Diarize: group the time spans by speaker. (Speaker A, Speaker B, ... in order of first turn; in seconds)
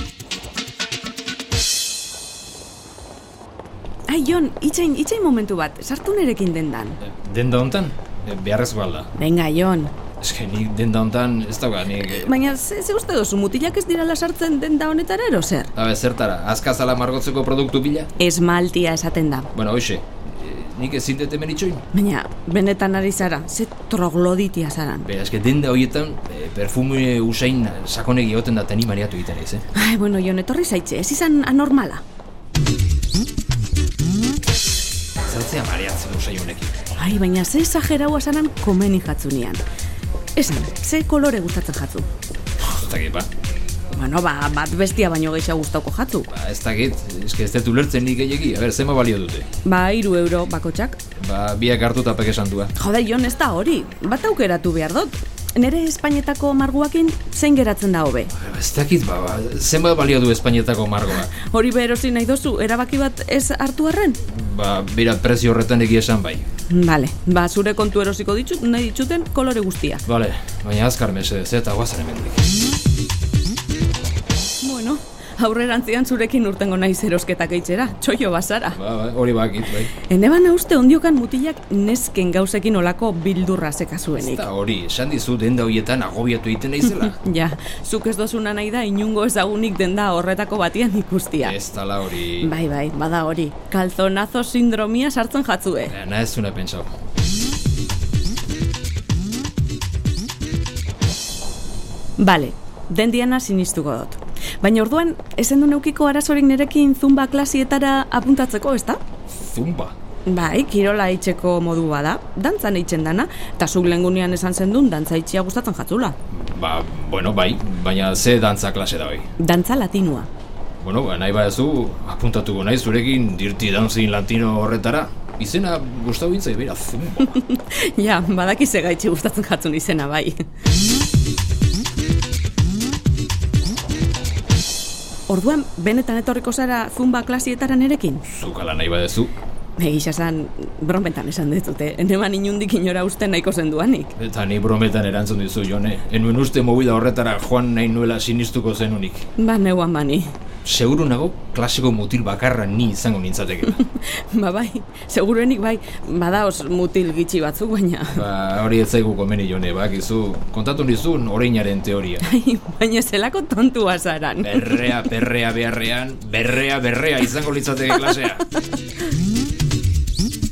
Speaker A: 4.1-7.0, 9.2-9.9, 12.0-15.7, 18.2-19.5, 21.9-25.1, 29.7-32.0, 37.0-39.6, 40.4-42.1, 43.9-46.3, 49.6-51.0, 52.8-58.3, 61.3-64.2, 66.7-70.0, 74.6-78.8, 80.0-84.4, 87.1-91.6, 92.4-96.0, 102.2-109.0, 110.3-116.2, 119.4-120.3, 127.2-130.4, 135.3-138.2, 139.8-144.1, 149.4-150.3, 153.8-158.2, 162.2-165.0
Speaker B: 7.0-9.1, 10.2-12.3, 15.8-18.1, 19.5-21.8, 25.0-29.6, 35.2-36.8, 42.6-43.3, 46.3-49.5, 51.2-52.7, 58.3-61.3, 64.3-66.5, 70.1-72.4, 78.8-79.9, 84.2-87.2, 91.4-92.5, 95.9-96.9, 109.3-109.9, 116.3-119.3, 120.8-127.3, 138.2-139.3, 144.2-149.3, 150.7-153.8, 158.1-162.2, 164.4-168.5